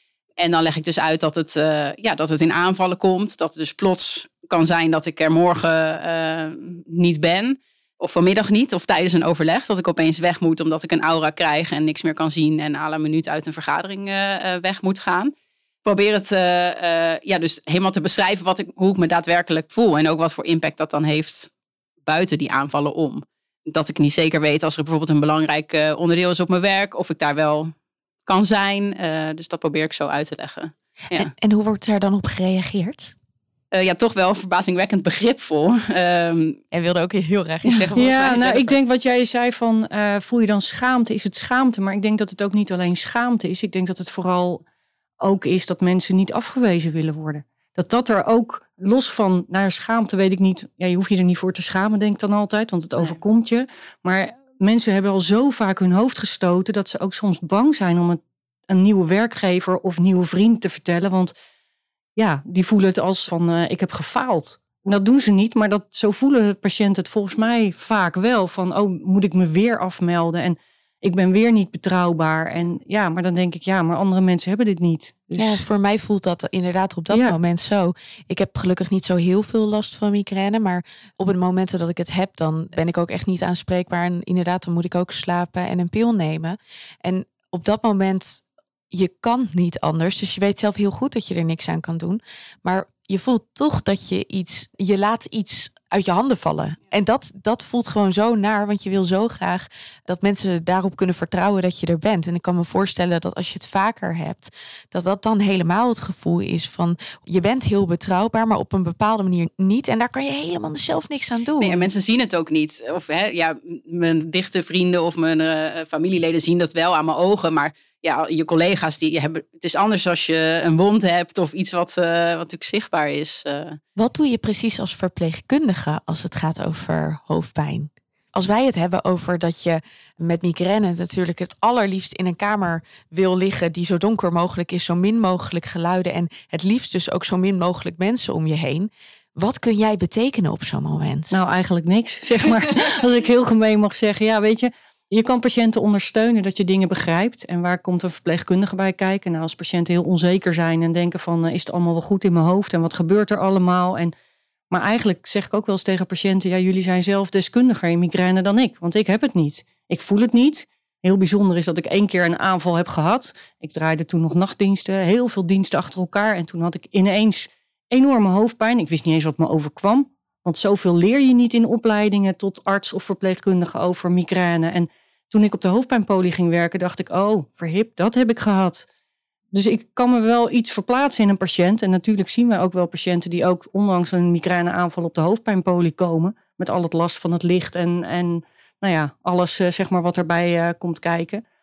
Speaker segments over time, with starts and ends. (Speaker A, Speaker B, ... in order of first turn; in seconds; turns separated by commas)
Speaker A: 0.4-15.3, Speaker A: 15.8-21.5, Speaker A: 22.0-27.7, Speaker A: 28.2-31.3, Speaker B: 31.1-33.1, Speaker A: 33.7-36.6, Speaker B: 36.7-38.8, Speaker C: 38.0-44.6, Speaker C: 45.2-61.3, Speaker C: 62.2-75.7, Speaker B: 75.4-111.9, Speaker C: 77.1-77.4, Speaker A: 111.6-123.8, Speaker B: 124.0-141.4, Speaker C: 141.3-154.1, Speaker C: 154.7-178.8, Speaker C: 179.5-191.4